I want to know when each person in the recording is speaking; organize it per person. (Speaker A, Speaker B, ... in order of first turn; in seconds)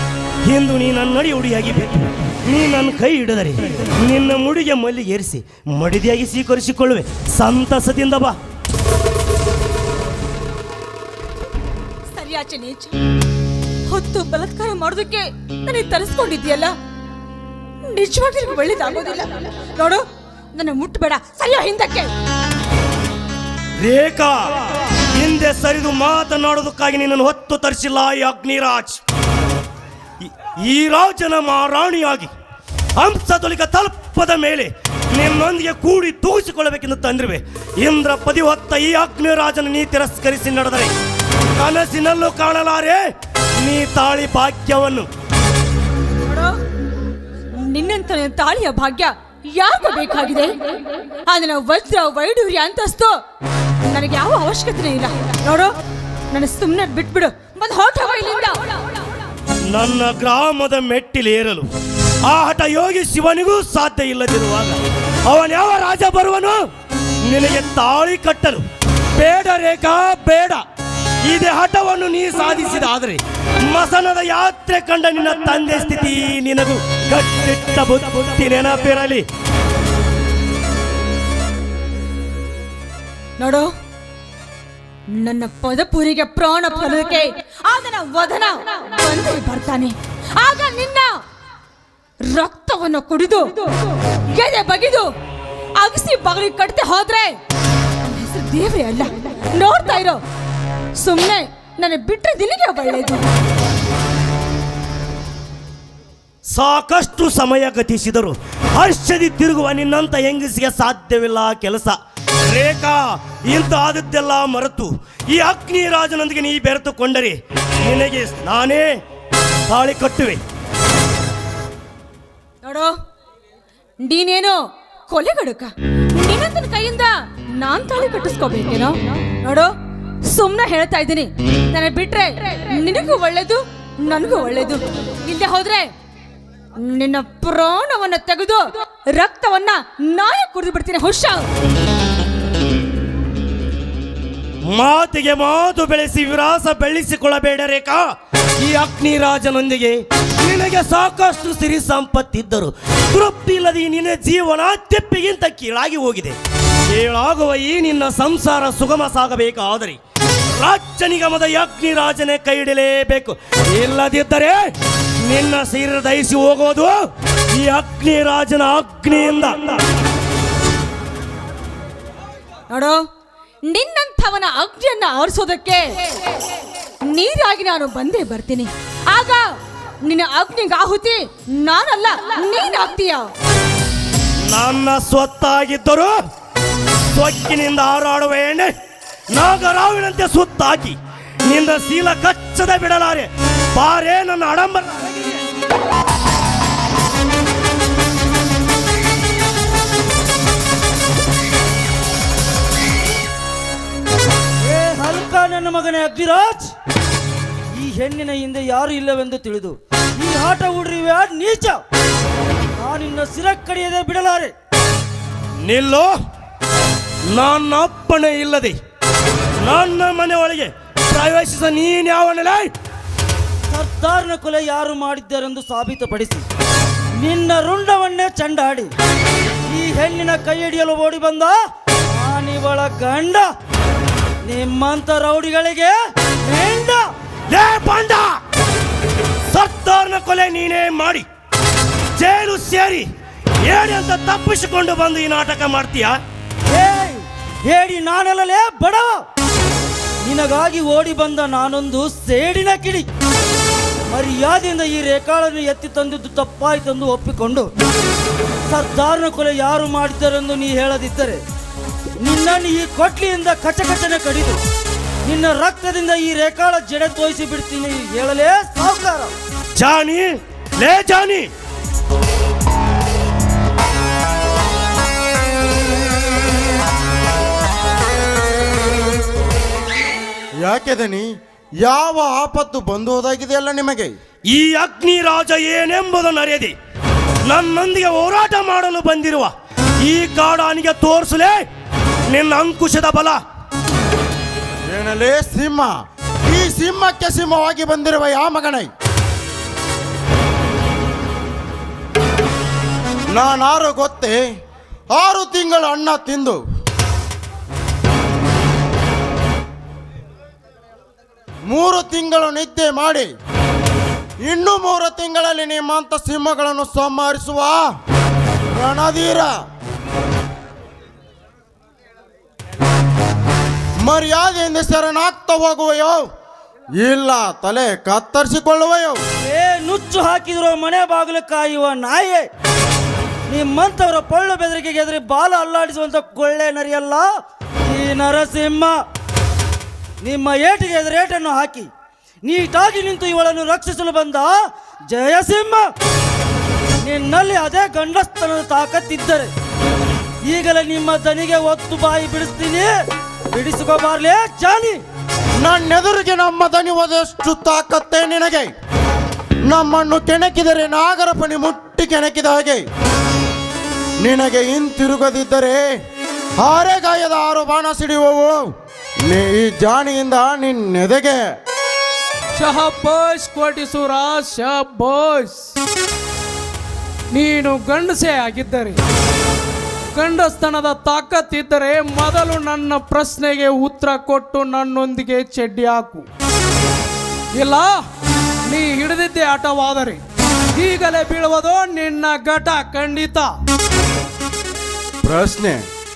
Speaker A: 0.5-8.3, 23.8-29.0, 30.2-32.3, 33.0-40.9, 41.5-43.0, 43.6-45.1, 59.7-61.7, 62.2-66.6, 67.2-68.6, 69.2-70.6, 71.2-79.2, 106.5-112.0, 112.5-118.9, 119.7-120.4, 144.7-148.1, 148.6-156.4, 156.9-160.0, 160.6-164.7, 165.2-169.8, 184.5-186.1, 187.1-188.7, 189.3-195.3, 215.6-216.1, 217.3-218.8, 219.6-222.7, 237.5-238.4, 239.5-241.3, 242.2-243.1, 243.6-246.2, 269.8-271.5, 284.5-286.7, 287.4-291.6, 292.3-293.4
Speaker B: 12.1-12.9, 13.9-16.7, 17.8-22.1, 46.2-46.6, 47.5-53.2, 53.9-55.8, 56.3-58.9, 83.4-83.7, 85.1-91.2, 92.2-95.1, 95.8-97.4, 98.0-100.2, 101.0-103.2, 122.6-122.9, 124.0-129.7, 130.2-135.9, 136.8-141.5, 172.7-173.0, 173.7-176.2, 177.1-183.3
Speaker C: 204.7-206.7, 207.8-211.8, 212.8-214.5, 223.7-226.4, 227.2-228.9, 229.7-231.5, 232.1-233.4, 234.4-235.9, 236.4-237.0, 246.7-249.2, 250.2-253.1, 254.1-257.7, 258.7-261.4, 262.2-264.6, 265.2-269.3, 329.4-332.5, 333.5-337.2, 337.9-338.9, 340.2-341.9, 342.4-344.5, 345.1-345.8, 347.0-349.5, 350.4-352.9, 353.5-355.0
Speaker D: 280.6-281.3, 281.8-284.1, 294.9-298.9, 303.3-304.4, 305.1-306.6, 311.7-313.3, 314.4-317.9, 318.7-319.6, 324.0-326.2, 327.0-329.2, 355.6-358.7, 359.7-362.8, 364.2-365.8, 366.6-368.6, 369.3-371.4, 395.2-395.8
Speaker E: 372.6-375.7, 377.3-379.0, 380.1-386.3, 387.6-388.0, 388.7-390.2, 390.8-393.5